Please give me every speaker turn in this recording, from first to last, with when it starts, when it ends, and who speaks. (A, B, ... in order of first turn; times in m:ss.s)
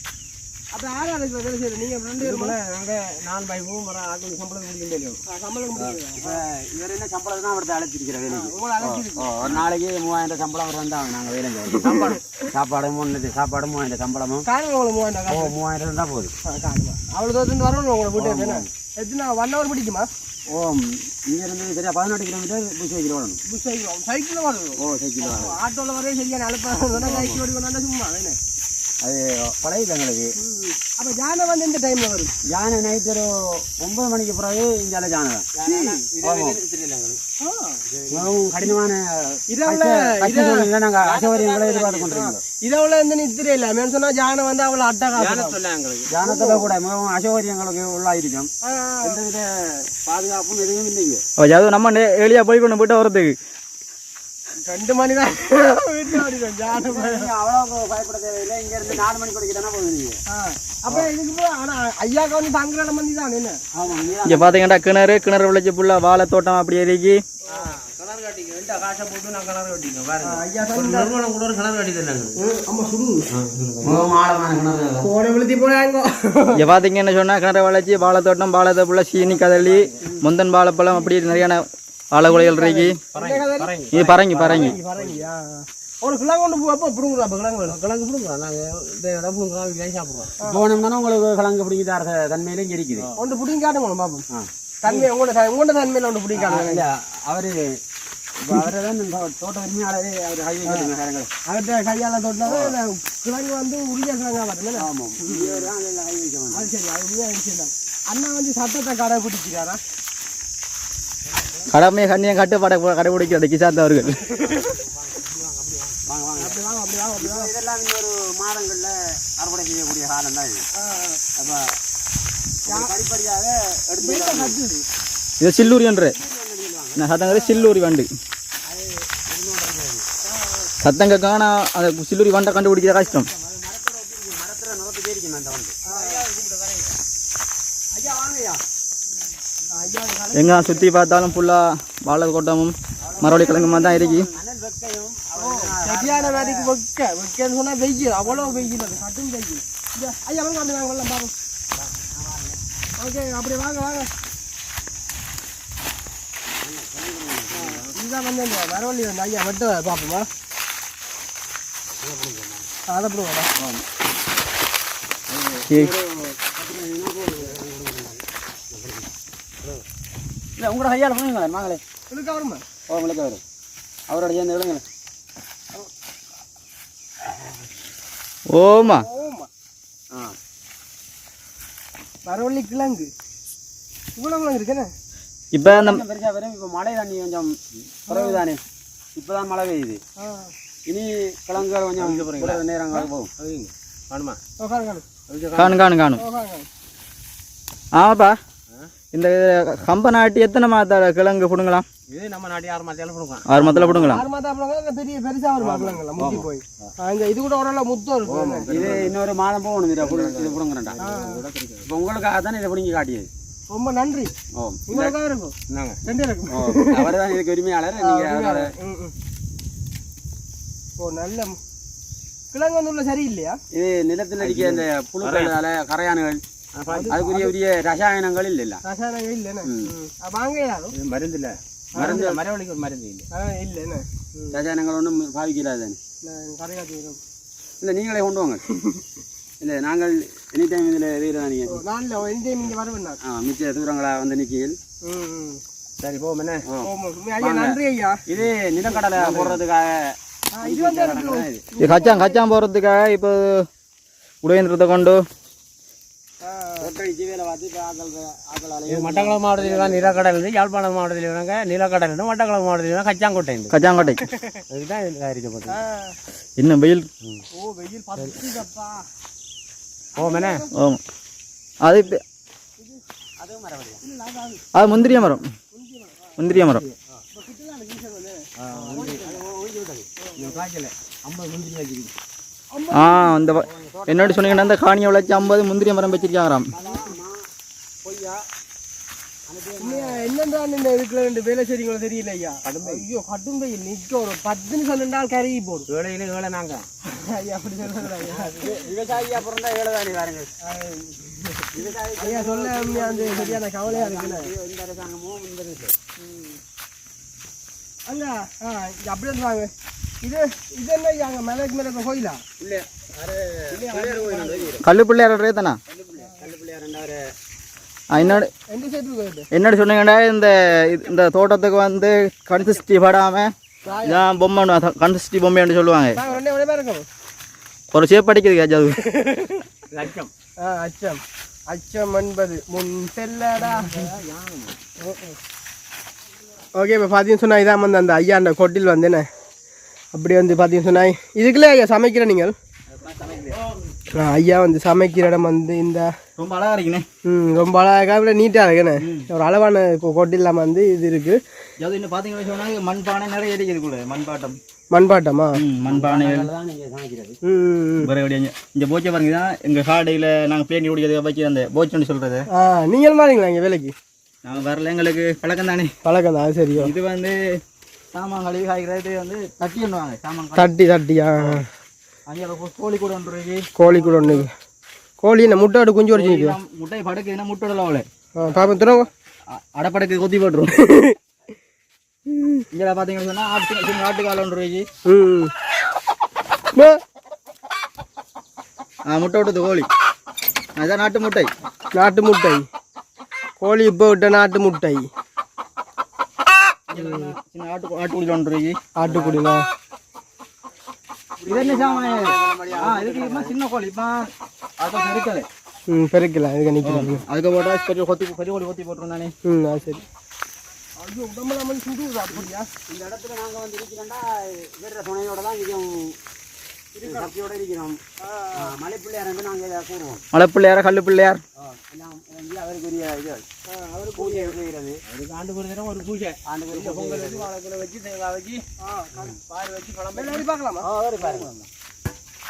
0:00.7-0:02.6 A
0:02.2-0:05.2 B
0:05.3-0:06.4 A
0:06.1-0:14.4 C
0:08.3-0:09.6 A
0:11.8-0:12.2 B
0:11.8-0:12.3 A
0:14.4-0:15.5 A
0:15.3-0:16.3 C
0:16.4-0:20.1 A
0:18.2-0:18.6 C
0:20.5-0:23.4 C
0:23.4-0:28.4 A
0:24.8-0:25.6 C
0:26.9-0:27.4 C
0:29.0-0:30.3 C
0:30.4-0:32.3 A
0:32.5-0:35.4 C
0:35.5-0:37.2 B
0:35.6-0:36.0 A
0:36.2-0:36.6 C
0:37.4-0:37.8 A
0:37.9-0:38.3 B
0:38.1-0:42.4 C
0:39.5-0:40.7 A
0:41.0-0:42.3 B
0:42.1-0:45.6 A
0:45.2-0:46.1 B
0:46.1-0:48.5 C
0:46.2-0:46.7 A
0:48.6-0:49.2 A
0:49.0-0:51.2 C
0:51.4-0:53.4 D
0:54.6-0:57.3 A
0:56.7-1:00.2 C
1:00.3-1:03.6 A
1:03.7-1:04.6 C
1:04.2-1:07.2 D
1:07.5-1:12.4 B
1:10.2-1:11.1 A
1:12.4-1:13.2 A
1:13.3-1:14.1 B
1:13.8-1:15.1 C
1:15.0-1:16.6 A
1:16.6-1:23.0 D
1:19.2-1:19.9 B
1:22.2-1:23.7 A
1:23.1-1:25.2 B
1:23.9-1:24.7 D
1:24.4-1:27.8 A
1:27.7-1:30.3 B
1:30.4-1:33.1 C
1:33.2-1:34.2 A
1:34.3-1:34.9 C
1:34.8-1:36.8 A
1:36.3-1:37.8 C
1:38.4-1:41.3 C
1:40.6-1:40.9 A
1:41.4-1:45.7 A
1:42.4-1:42.8 C
1:44.8-1:46.7 C
1:46.5-1:49.8 A
1:51.7-1:54.2 D
1:54.3-1:54.7 A
1:54.3-1:56.0 B
1:56.0-1:56.6 C
1:56.4-1:57.5 A
1:57.2-2:00.6 C
2:00.7-2:01.2 A
2:01.4-2:01.7 C
2:02.6-2:04.6 C
2:02.7-2:02.9 A
2:04.0-2:04.8 A
2:05.4-2:06.2 D
2:06.0-2:07.0 C
2:07.0-2:08.1 D
2:07.2-2:07.7 A
2:08.6-2:10.0 C
2:10.2-2:10.7 A
2:10.8-2:13.3 D
2:12.8-2:15.7 C
2:15.8-2:16.2 A
2:15.8-2:17.0 B
2:17.9-2:18.6 C
2:19.7-2:20.9 A
2:20.3-2:24.3 D
2:23.0-2:26.7 C
2:23.2-2:24.3 A
2:25.3-2:31.3 A
2:28.2-2:29.0 C
2:31.8-2:32.6 C
2:33.0-2:34.1 A
2:36.6-2:37.8 C
2:37.5-2:40.3 A
2:42.0-2:42.6 C
2:42.9-2:43.5 A
2:43.6-2:43.8 C
2:45.3-2:49.1 C
2:50.6-2:51.8 C
2:52.1-2:52.6 A
2:52.9-2:53.4 C
2:54.1-2:54.8 C
2:58.5-2:59.0 D
2:58.8-2:59.5 A
3:02.2-3:03.1 A
3:04.2-3:04.9 A
3:05.5-3:06.0 D
3:05.6-3:08.6 C
3:08.1-3:08.4 A
3:09.2-3:10.0 C
3:10.2-3:10.5 A
3:10.8-3:13.3 C
3:11.6-3:12.6 B
3:13.4-3:14.4 B
3:14.6-3:15.0 A
3:15.3-3:15.8 B
3:15.6-3:16.2 D
3:16.2-3:16.7 A
3:17.9-3:18.4 D
3:19.1-3:21.8 D
3:22.1-3:23.6 B
3:23.5-3:24.2 D
3:23.6-3:24.1 C
3:24.0-3:29.0 A
3:25.7-3:26.4 C
3:28.2-3:29.2 B
3:28.7-3:31.1 C
3:30.0-3:31.9 B
3:31.0-3:31.4 A
3:31.9-3:33.3 C
3:33.7-3:34.3 A
3:34.6-3:34.8 C
3:34.9-3:37.4 A
3:35.7-3:36.0 B
3:36.5-3:38.7 C
3:38.0-3:39.1 A
3:41.0-3:41.6 A
3:42.5-3:43.6 A
3:43.7-3:46.4 C
3:44.4-3:45.6 B
3:46.8-3:47.2 B
3:46.9-3:47.5 A
3:47.1-3:48.8 C
3:48.8-3:50.9 A
3:49.6-3:49.9 C
3:50.9-3:53.2 B
3:51.9-3:52.4 A
3:53.3-3:54.6 A
3:54.5-3:56.0 C
3:56.2-3:57.2 A
3:57.8-3:58.6 C
3:58.7-3:59.0 A
3:59.6-4:01.8 C
4:01.7-4:03.2 A
4:03.2-4:04.8 C
4:05.0-4:05.6 A
4:06.0-4:06.7 B
4:06.7-4:11.6 C
4:06.8-4:08.2 A
4:08.9-4:09.5 A
4:08.9-4:09.6 B
4:10.5-4:12.4 A
4:11.8-4:13.6 D
4:14.4-4:15.2 D
4:16.4-4:16.9 A
4:16.8-4:20.2 C
4:18.9-4:23.7 B
4:23.7-4:24.2 D
4:24.0-4:24.6 A
4:24.7-4:25.8 B
4:25.7-4:26.2 A
4:26.6-4:27.1 D
4:27.5-4:29.0 A
4:30.2-4:30.6 B
4:30.2-4:30.7 A
4:31.8-4:32.2 D
4:33.4-4:34.0 C
4:34.0-4:36.5 A
4:34.7-4:35.4 D
4:36.4-4:36.8 D
4:36.5-4:37.0 C
4:37.3-4:39.4 A
4:38.6-4:39.2 B
4:38.7-4:40.6 C
4:40.2-4:40.6 A
4:40.4-4:40.9 B
4:41.2-4:42.2 C
4:42.7-4:43.3 A
4:42.9-4:46.7 D
4:43.6-4:44.8 C
4:46.7-4:47.5 C
4:46.8-4:47.1 A
4:48.0-4:48.4 C
4:49.5-4:50.3 C
4:49.8-4:55.9 A
4:52.6-4:53.0 B
4:55.9-4:56.8 B
4:57.1-4:58.7 A
4:58.3-5:00.5 C
5:00.6-5:04.5 A
5:01.7-5:05.9 C
5:06.2-5:06.6 A
5:08.0-5:12.4 A
5:12.6-5:14.9 C
5:13.7-5:14.8 A
5:14.8-5:15.8 D
5:15.9-5:17.3 C
5:16.2-5:16.4 A
5:18.1-5:18.5 D
5:18.2-5:19.5 A
5:19.5-5:23.5 D
5:23.8-5:24.2 A
5:24.0-5:26.2 D
5:26.1-5:27.0 A
5:27.9-5:29.0 D
5:29.0-5:29.7 A
5:29.9-5:30.3 B
5:30.6-5:34.1 A
5:33.6-5:34.8 B
5:35.0-5:35.4 A
5:36.8-5:39.2 A
5:40.1-5:42.5 A
5:43.0-5:43.6 D
5:44.1-5:46.1 A
5:46.4-5:47.0 D
5:47.2-5:51.4 A
5:49.0-5:49.3 D
5:51.8-5:54.6 D
5:54.9-5:55.6 A
5:55.6-5:56.5 D
5:55.9-5:57.4 C
5:57.4-5:58.1 A
5:58.0-6:02.4 D
6:02.5-6:03.9 A
6:04.4-6:05.9 D
6:06.0-6:06.9 A
6:06.8-6:07.4 D
6:08.1-6:10.7 D
6:10.6-6:11.6 A
6:12.3-6:14.4 D
6:13.8-6:14.5 A
6:15.2-6:16.6 A
6:16.1-6:18.8 D
6:18.4-6:19.1 A
6:19.5-6:20.7 D
6:20.8-6:21.2 A
6:22.3-6:22.6 A
6:22.7-6:24.9 D
6:25.0-6:25.5 A
6:29.1-6:29.9 D
6:30.8-6:31.5 D
6:31.9-6:32.6 A
6:33.6-6:35.1 A
6:36.9-6:38.8 D
6:36.9-6:37.3 A
6:39.0-6:39.6 A
6:41.4-6:43.5 C
6:41.4-6:45.5 D
6:45.9-6:47.2 A
6:46.8-6:49.3 D
6:49.4-6:50.0 A
6:51.0-6:52.7 A
6:52.3-6:56.2 C
6:57.0-6:57.3 A
6:57.0-6:58.0 C
6:58.2-6:58.7 A
6:58.6-7:00.2 C
7:00.3-7:01.4 D
7:01.6-7:03.4 C
7:03.7-7:04.6 A
7:04.1-7:05.0 C
7:05.1-7:08.6 B
7:06.5-7:07.5 C
7:08.8-7:09.4 A
7:09.2-7:10.4 B
7:10.1-7:10.9 A
7:10.8-7:11.7 C